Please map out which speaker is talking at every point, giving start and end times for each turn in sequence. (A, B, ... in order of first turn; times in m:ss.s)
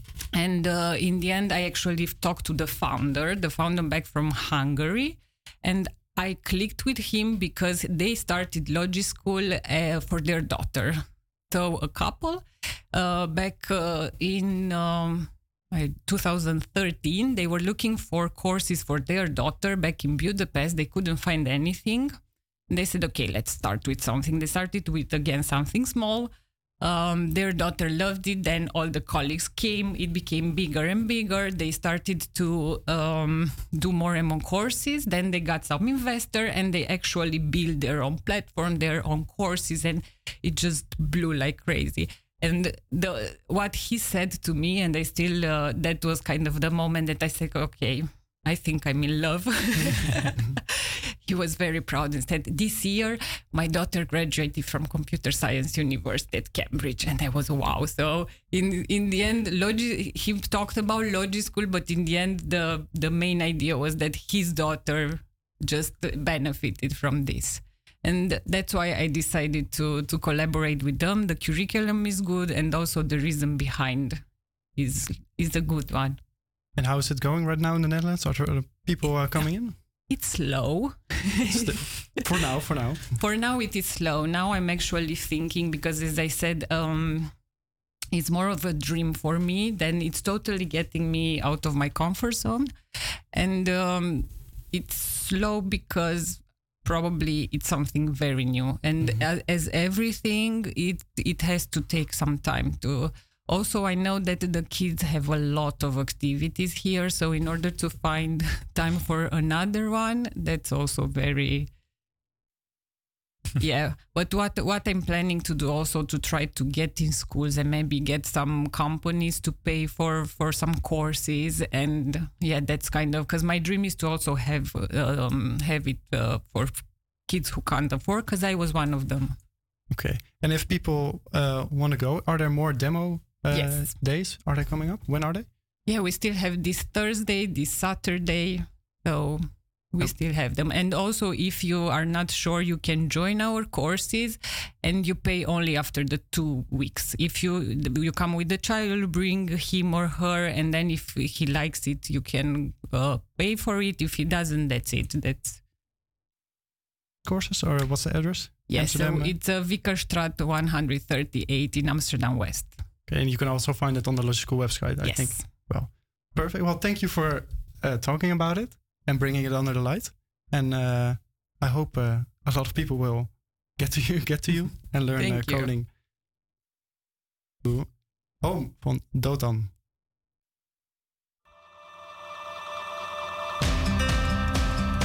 0:00.3-0:22.2 A
0:22.7-0:50.4 A
0:51.2-1:14.2 A
1:14.8-1:16.2 A
1:16.8-1:19.8 B
1:20.1-1:22.3 A
1:21.5-1:23.0 B
1:23.2-1:27.3 A
1:28.1-1:32.7 A
1:33.3-1:51.7 A
1:53.6-2:09.4 A
2:09.9-2:15.5 B
2:13.5-2:13.9 A
2:15.9-2:35.6 A
2:37.2-2:39.3 B
2:38.7-2:42.8 A
2:43.1-2:55.9 B
2:45.0-2:45.5 A
2:55.2-2:55.7 A
2:57.6-2:59.7 B